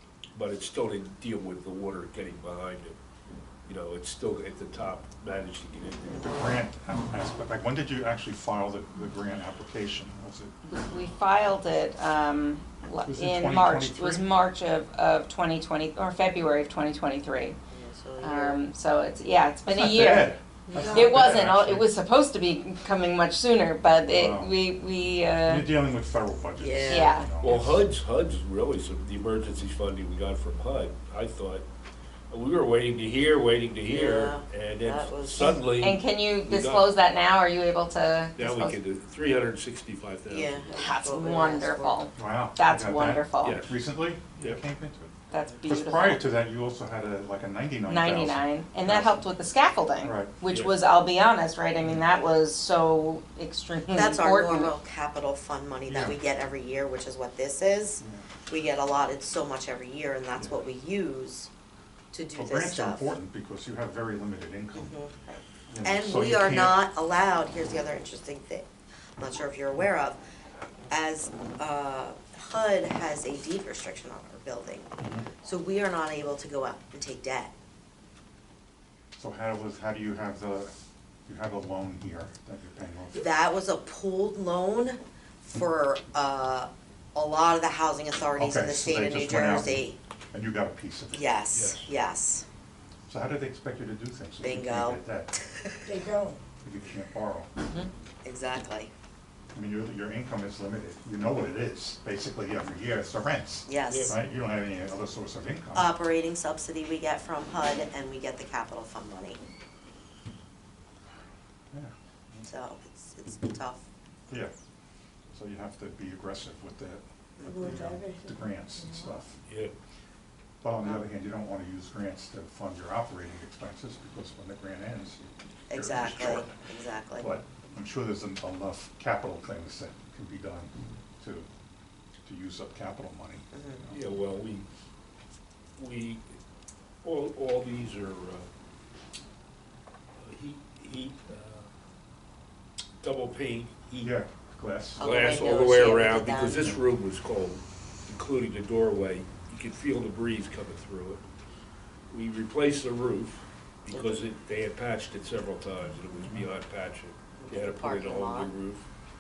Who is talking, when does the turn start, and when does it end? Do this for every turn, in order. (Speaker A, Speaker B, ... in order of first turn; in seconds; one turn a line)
Speaker A: 0.3-3.0
Speaker A: 3.6-6.2
Speaker B: 6.2-10.5
Speaker C: 10.7-17.6
Speaker B: 13.1-14.2
Speaker D: 17.7-18.6
Speaker C: 18.2-20.4
Speaker B: 19.7-21.9
Speaker E: 20.7-21.1
Speaker C: 20.9-25.7
Speaker B: 24.1-24.6
Speaker B: 25.4-27.8
Speaker D: 26.6-27.1
Speaker C: 26.9-27.3
Speaker A: 27.4-31.6
Speaker A: 32.3-36.9
Speaker D: 33.9-35.6
Speaker C: 35.6-38.8
Speaker A: 38.4-40.7
Speaker D: 40.3-42.0
Speaker C: 40.7-43.6
Speaker B: 42.2-49.3
Speaker A: 43.4-43.8
Speaker C: 45.3-46.2
Speaker C: 47.9-54.7
Speaker B: 50.0-50.3
Speaker A: 50.5-50.8
Speaker B: 51.8-52.1
Speaker D: 53.9-61.5
Speaker B: 55.9-56.2
Speaker B: 58.0-58.3
Speaker B: 60.4-60.6
Speaker D: 62.1-63.1
Speaker B: 62.4-65.0
Speaker D: 64.7-68.7
Speaker B: 65.7-66.8
Speaker D: 69.2-70.2
Speaker D: 70.9-77.5
Speaker B: 75.0-75.3
Speaker B: 79.2-80.7
Speaker B: 81.3-83.3
Speaker D: 83.2-90.0
Speaker B: 88.4-91.3
Speaker D: 91.1-92.5
Speaker A: 91.5-91.9
Speaker B: 93.1-95.3
Speaker D: 94.4-96.0
Speaker E: 95.9-96.4
Speaker B: 96.6-97.5
Speaker D: 97.7-98.9
Speaker B: 99.5-105.9
Speaker D: 103.7-104.1
Speaker A: 103.9-104.2
Speaker D: 105.8-109.4
Speaker B: 111.7-112.5
Speaker D: 112.5-113.8
Speaker B: 115.3-119.4
Speaker E: 117.4-119.2
Speaker A: 119.5-119.7
Speaker B: 120.6-125.2
Speaker D: 125.7-127.3
Speaker A: 125.8-126.5
Speaker B: 127.2-131.5
Speaker B: 132.2-134.1
Speaker D: 133.5-133.8
Speaker A: 133.9-134.7
Speaker A: 135.8-136.3
Speaker A: 137.0-138.5
Speaker A: 140.2-141.7
Speaker A: 143.0-144.2
Speaker B: 144.0-145.0
Speaker D: 145.0-146.7
Speaker A: 145.0-151.2
Speaker B: 146.6-146.8
Speaker A: 152.1-158.9
Speaker D: 153.9-154.3
Speaker D: 157.4-158.5